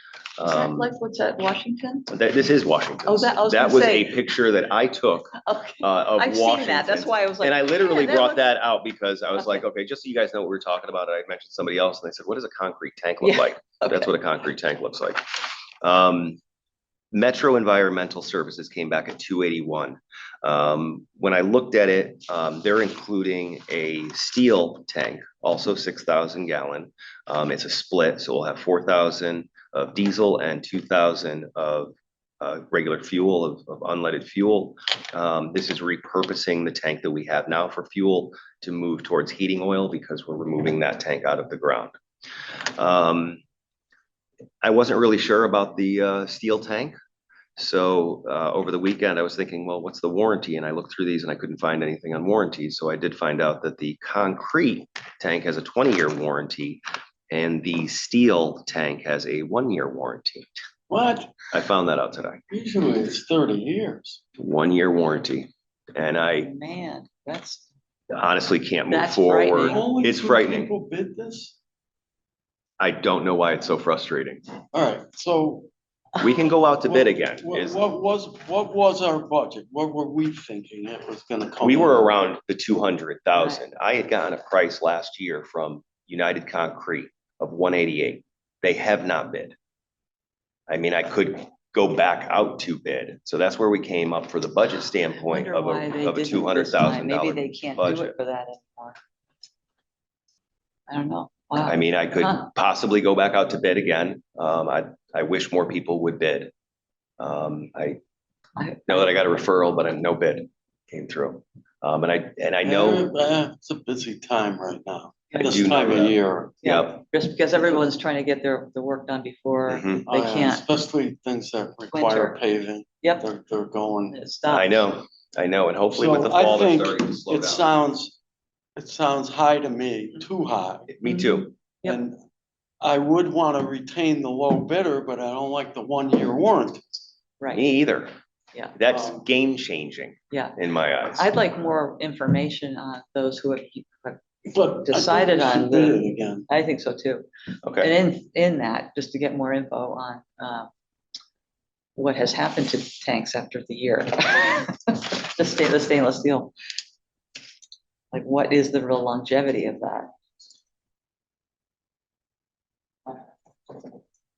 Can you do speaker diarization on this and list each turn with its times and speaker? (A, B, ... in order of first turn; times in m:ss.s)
0:00.4-0:00.9 A
0:00.4-0:02.1 B
0:02.1-0:16.4 A
0:03.1-0:04.1 B
0:05.3-0:08.5 B
0:13.2-0:14.1 B
0:17.1-0:41.9 A
0:42.8-0:43.4 A
0:44.6-0:47.0 A
0:47.6-1:00.4 A
1:00.9-1:01.4 C
1:01.5-1:02.4 A
1:02.5-1:04.2 C
1:04.4-1:06.5 A
1:06.4-1:07.6 B
1:08.1-1:10.7 A
1:08.9-1:09.8 B
1:09.7-1:11.6 C
1:12.8-1:14.4 A
1:14.7-1:15.7 C
1:16.2-1:17.8 A
1:16.9-1:22.1 C
1:21.6-1:29.6 A
1:30.7-1:38.1 A
1:35.2-1:39.0 B
1:40.9-1:42.4 B
1:41.6-1:46.5 A
1:47.2-1:48.0 A
1:48.6-1:49.2 B
1:48.9-1:53.1 A
1:52.6-1:56.6 C
1:55.4-1:57.0 A
1:56.6-2:00.6 B
1:59.7-2:00.1 A
2:00.1-2:04.2 C
2:01.9-2:02.4 B
2:04.1-2:04.8 B
2:04.5-2:07.7 A
2:06.0-2:08.2 C
2:08.8-2:10.9 C
2:10.9-2:11.5 A
2:11.0-2:12.0 B
2:11.8-2:12.2 C
2:12.8-2:17.1 C
2:17.5-2:18.1 A
2:18.8-2:21.3 A
2:18.9-2:19.2 C
2:21.2-2:24.2 B
2:24.5-2:26.5 C
2:24.8-2:27.3 B
2:27.6-2:28.0 A
2:27.8-2:30.7 B
2:32.0-2:36.5 B
2:38.1-2:40.1 B